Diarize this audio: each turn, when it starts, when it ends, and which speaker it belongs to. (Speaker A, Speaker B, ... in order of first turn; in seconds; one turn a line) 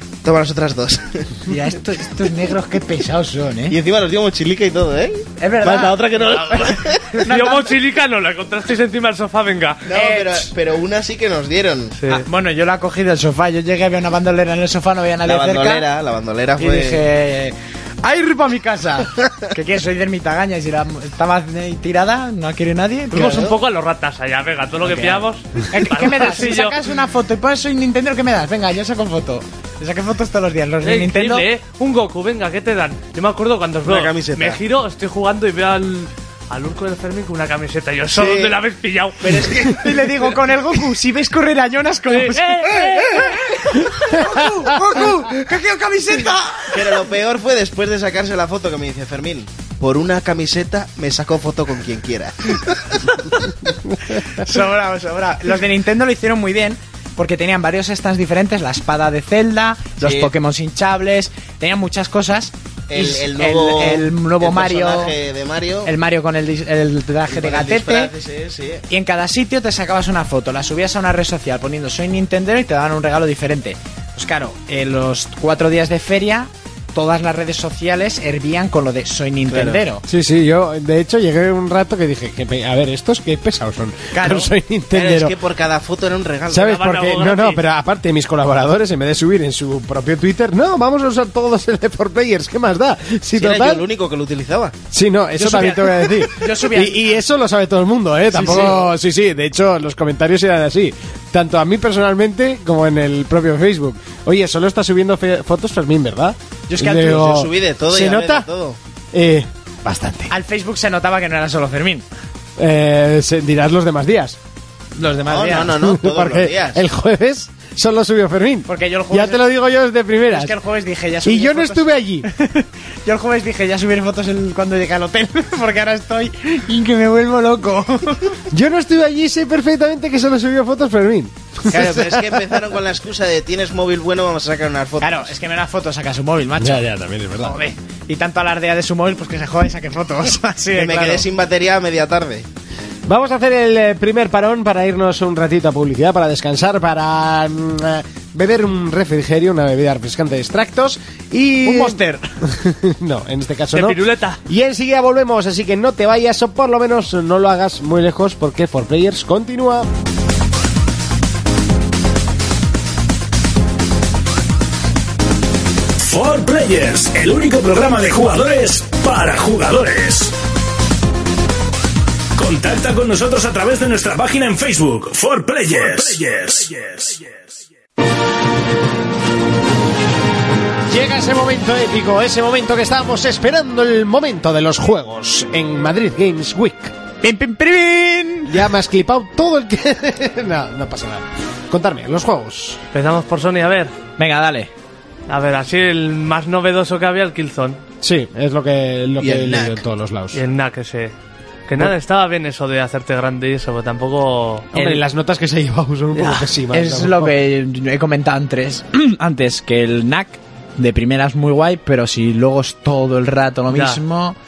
Speaker A: 0.2-1.4
Speaker B: 1.5-3.8
Speaker A: 3.7-7.2
Speaker B: 5.4-7.7
Speaker C: 7.2-9.8
Speaker A: 9.8-12.0
Speaker B: 9.9-10.5
Speaker C: 12.0-12.2
Speaker B: 12.1-15.9
Speaker A: 15.2-17.0
Speaker B: 16.6-23.5
Speaker A: 23.1-23.6
Speaker C: 23.1-26.7
Speaker B: 24.8-31.4
Speaker C: 30.8-39.7
Speaker A: 33.9-34.6
Speaker A: 38.1-38.5
Speaker A: 39.2-40.4
Speaker B: 39.6-47.0
Speaker C: 42.1-43.3
Speaker A: 46.7-53.3
Speaker B: 54.1-65.1
Speaker A: 60.0-60.3
Speaker A: 62.9-65.9
Speaker B: 65.8-68.1
Speaker A: 67.3-68.8
Speaker B: 68.9-80.0
Speaker A: 79.5-79.8
Speaker D: 80.0-85.3
Speaker B: 84.1-84.5
Speaker A: 84.9-86.7
Speaker D: 86.5-93.8
Speaker C: 86.6-87.6
Speaker A: 93.3-94.8
Speaker D: 94.9-108.5
Speaker B: 95.4-97.0
Speaker B: 98.3-98.8
Speaker B: 106.7-107.4
Speaker A: 107.0-108.8
Speaker D: 109.1-110.3
Speaker B: 110.3-112.0
Speaker D: 112.6-114.4
Speaker B: 115.0-115.8
Speaker A: 115.2-116.8
Speaker D: 115.7-120.5
Speaker B: 118.7-119.4
Speaker B: 120.3-128.4
Speaker D: 121.2-122.3
Speaker D: 128.5-132.5
Speaker A: 131.7-135.3
Speaker B: 135.0-136.9
Speaker D: 136.6-137.6
Speaker B: 137.4-141.2
Speaker A: 140.7-142.5
Speaker D: 143.1-159.9
Speaker B: 151.6-152.2
Speaker C: 153.7-154.4
Speaker E: 166.0-170.3
Speaker E: 172.3-177.4
Speaker D: 180.9-186.9
Speaker B: 187.2-188.5
Speaker D: 188.5-192.8
Speaker C: 192.9-193.9
Speaker B: 194.2-194.7
Speaker C: 195.3-197.8
Speaker D: 198.0-200.4
Speaker A: 199.2-199.8
Speaker C: 200.3-201.1
Speaker C: 201.7-205.0
Speaker D: 204.7-207.3
Speaker C: 206.1-206.5
Speaker B: 206.7-214.3
Speaker C: 213.7-214.0